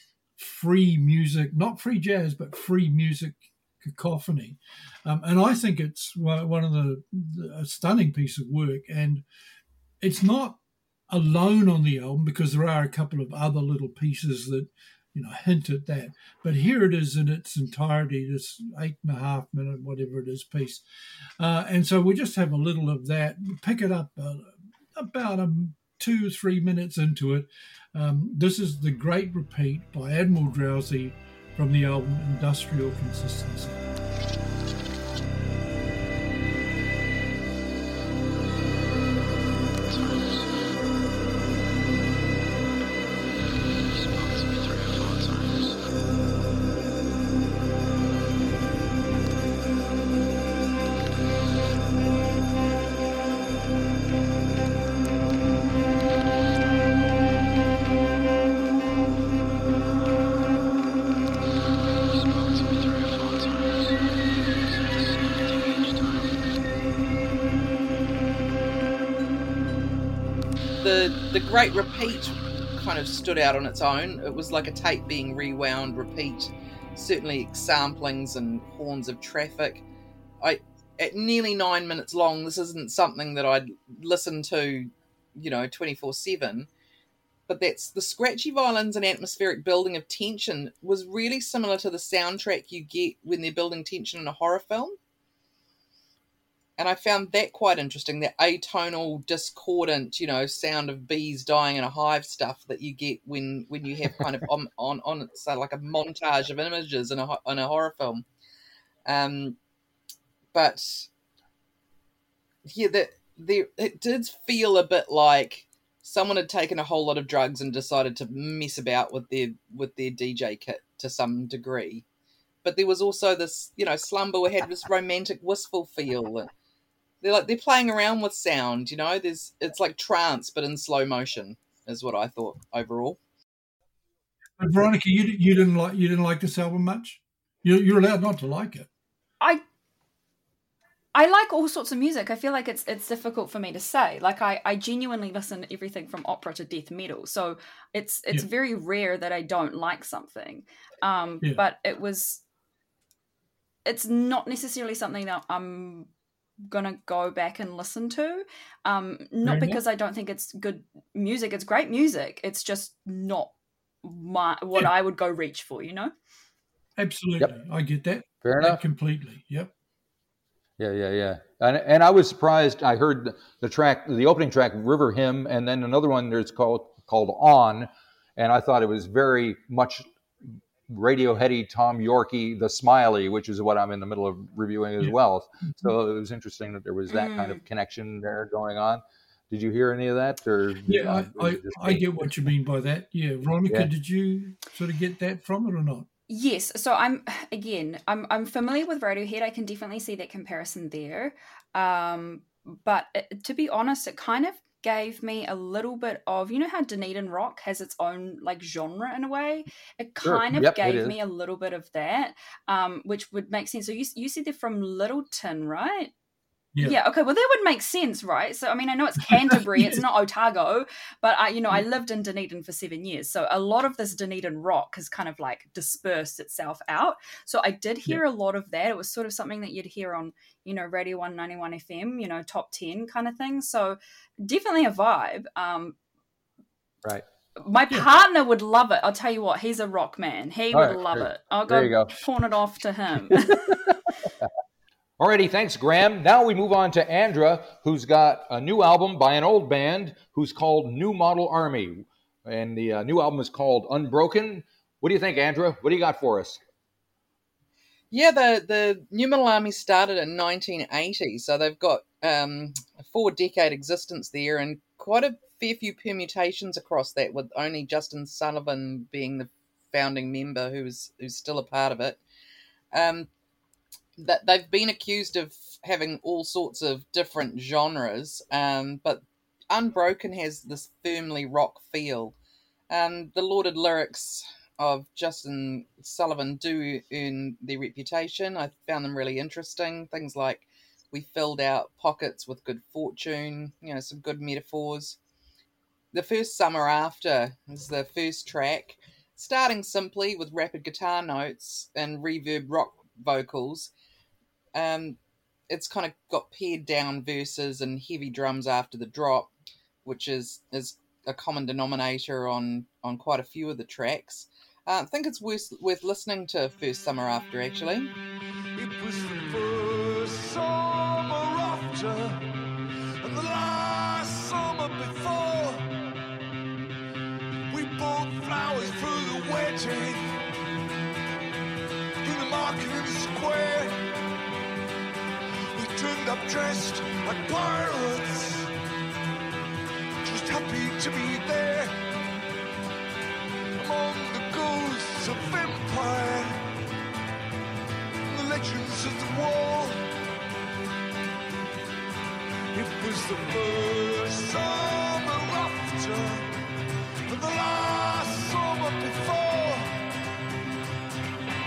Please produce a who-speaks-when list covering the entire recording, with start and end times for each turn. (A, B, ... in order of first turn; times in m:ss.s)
0:00.4-0:09.2 A
0:10.0-0:20.8 A
0:21.4-0:33.9 A
1:10.8-1:19.8 B
1:20.4-1:26.7 B
1:27.5-1:35.0 B
1:36.8-1:48.2 B
1:49.0-1:49.6 B
1:50.5-1:51.1 B
1:52.6-2:02.0 B
2:02.6-2:06.5 B
2:07.2-2:13.2 B
2:14.6-2:18.9 A
2:21.1-2:32.4 C
2:33.8-2:36.1 C
2:36.7-2:43.5 C
2:39.4-2:39.8 A
2:44.0-2:46.1 C
2:47.0-2:49.7 A
2:48.4-2:48.8 D
2:50.8-3:00.0 D
3:00.9-3:12.3 D
3:07.1-3:07.6 C
3:10.8-3:16.1 A
3:16.3-3:36.1 C
3:30.2-3:31.2 D
3:36.8-3:56.0 C
3:39.3-3:39.9 A
3:57.6-4:03.7 C
4:00.7-4:02.2 D
4:03.3-4:04.0 D
4:05.2-4:16.6 D
4:18.1-4:32.2 B
4:32.9-4:33.3 B
4:34.2-4:42.4 B
4:42.9-4:55.2 B
4:56.1-5:03.9 B
5:04.7-5:05.2 B
5:05.7-5:09.5 B
5:10.0-5:18.1 B
5:18.8-5:22.5 E
5:23.2-5:25.9 E
5:27.7-5:30.4 E
5:32.2-5:34.0 E
5:35.7-5:38.7 E
5:40.2-5:41.9 E
5:43.8-5:46.6 E
5:48.3-5:50.1 E
5:52.7-5:56.5 E
5:57.3-6:00.0 E